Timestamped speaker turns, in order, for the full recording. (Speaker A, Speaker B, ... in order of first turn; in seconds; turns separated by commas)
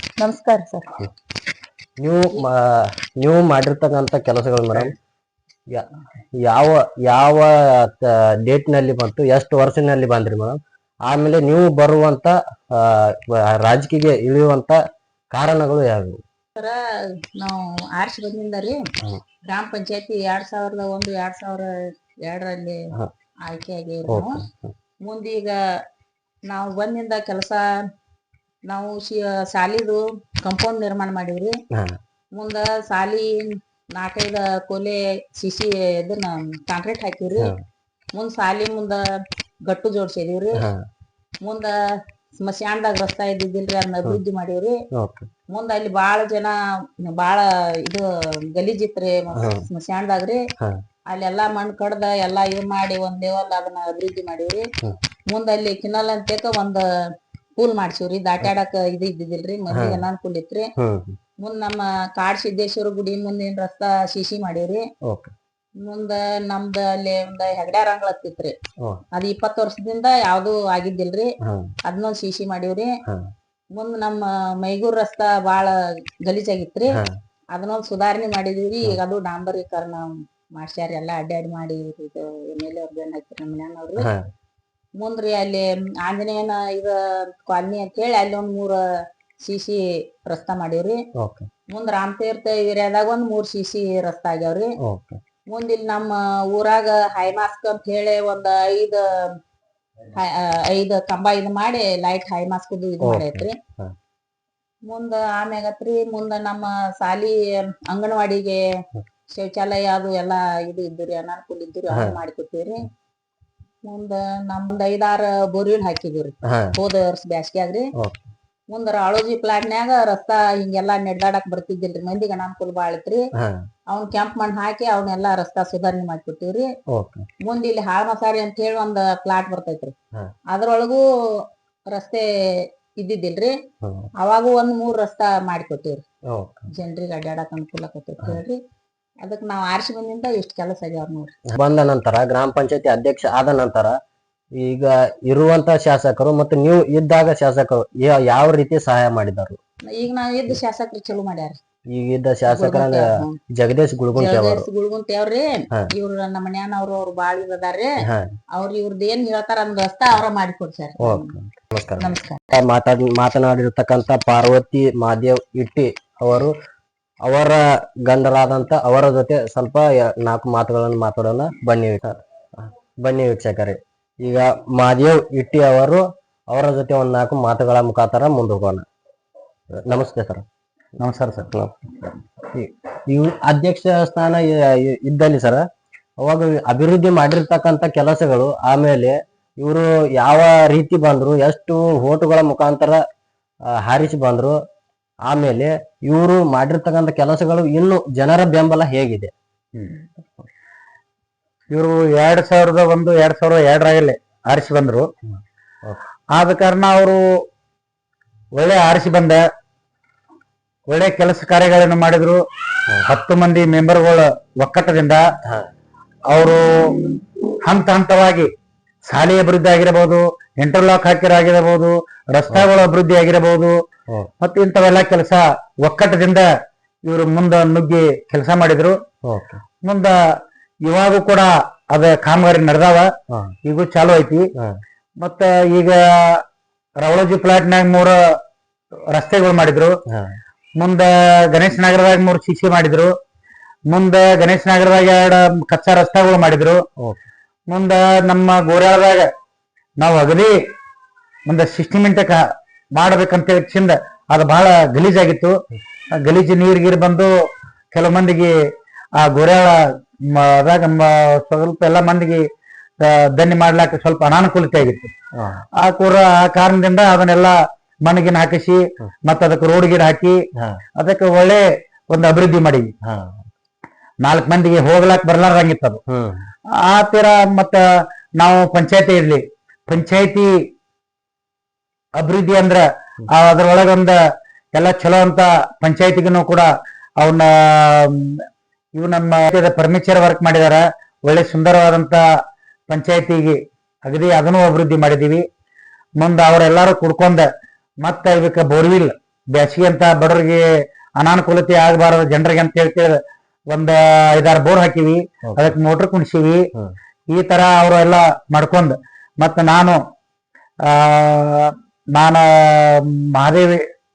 Speaker A: 0.2-0.9, Speaker B: 2.0-4.9, Speaker B: 6.4-14.8, Speaker B: 15.3-16.2, Speaker A: 17.4-18.8, Speaker A: 19.5-21.7, Speaker A: 22.2-22.8, Speaker A: 23.4-24.4, Speaker B: 24.1-24.7, Speaker A: 25.0-25.6, Speaker A: 26.5-27.6, Speaker A: 28.7-31.5, Speaker A: 32.3-37.5, Speaker A: 38.1-39.0, Speaker A: 39.6-40.6, Speaker A: 41.4-41.7, Speaker A: 42.4-44.8, Speaker B: 44.9-45.3, Speaker A: 45.5-50.4, Speaker B: 49.4-49.6, Speaker A: 51.1-54.7, Speaker A: 55.3-56.8, Speaker A: 57.5-60.7, Speaker B: 59.7-60.0, Speaker B: 60.8-61.2, Speaker A: 61.4-64.9, Speaker B: 65.0-65.3, Speaker A: 65.8-68.5, Speaker A: 69.1-72.9, Speaker B: 71.4-71.7, Speaker A: 73.7-75.7, Speaker A: 76.2-77.0, Speaker A: 77.5-84.1, Speaker A: 85.0-88.8, Speaker A: 89.4-91.0, Speaker B: 91.2-91.5, Speaker A: 91.7-94.7, Speaker B: 94.8-95.2, Speaker A: 95.5-99.0, Speaker A: 100.1-103.5, Speaker B: 103.0-103.9, Speaker A: 104.9-108.6, Speaker A: 109.3-112.9, Speaker B: 111.9-112.2, Speaker A: 113.8-117.9, Speaker B: 116.4-116.7, Speaker B: 118.0-118.3, Speaker A: 118.7-123.3, Speaker B: 123.4-123.7, Speaker A: 123.9-126.7, Speaker B: 126.9-127.2, Speaker A: 127.4-129.9, Speaker A: 130.5-132.2, Speaker A: 133.0-133.5, Speaker B: 133.8-134.1, Speaker A: 134.2-136.0, Speaker B: 136.3-136.7, Speaker A: 136.7-138.6, Speaker A: 139.2-141.3, Speaker B: 141.5-143.9, Speaker B: 144.6-149.6, Speaker A: 149.9-151.6, Speaker B: 151.9-154.7, Speaker A: 152.5-153.3, Speaker A: 154.2-157.9, Speaker B: 158.0-158.3, Speaker A: 158.5-161.3, Speaker B: 161.0-166.5, Speaker A: 162.0-162.4, Speaker B: 167.2-178.8, Speaker B: 179.7-180.4, Speaker C: 181.0-181.6, Speaker B: 181.5-181.8, Speaker B: 182.5-185.6, Speaker B: 186.2-193.0, Speaker B: 193.7-194.6, Speaker B: 195.2-199.3, Speaker C: 199.7-200.0, Speaker C: 201.7-205.1, Speaker C: 206.3-207.2, Speaker C: 208.5-209.4, Speaker C: 210.9-212.4, Speaker C: 213.0-215.2, Speaker C: 216.3-217.1, Speaker C: 217.6-218.5, Speaker C: 219.1-223.8, Speaker C: 224.4-226.5, Speaker C: 227.1-228.9, Speaker B: 229.3-229.6, Speaker C: 229.8-230.2, Speaker C: 230.8-233.1, Speaker C: 233.6-234.5, Speaker C: 235.2-236.4, Speaker C: 237.0-238.3, Speaker C: 239.1-239.9, Speaker B: 240.1-240.4, Speaker C: 240.8-243.1, Speaker C: 243.9-246.8, Speaker B: 247.0-247.2, Speaker C: 247.7-249.3, Speaker C: 250.0-250.6, Speaker C: 251.4-255.5, Speaker C: 256.2-257.3, Speaker C: 257.9-258.5, Speaker C: 259.2-262.4, Speaker C: 263.0-265.1, Speaker B: 265.4-265.6, Speaker C: 265.8-270.4, Speaker C: 271.0-272.9, Speaker B: 273.0-273.4, Speaker C: 274.2-276.0, Speaker B: 276.1-276.4, Speaker C: 276.8-280.5, Speaker C: 282.2-284.2, Speaker C: 284.7-286.7, Speaker C: 287.2-288.4, Speaker C: 288.9-292.2, Speaker C: 292.9-295.4, Speaker C: 296.2-297.5, Speaker C: 298.0-306.7, Speaker B: 305.4-305.7, Speaker C: 307.3-310.0, Speaker C: 310.8-313.8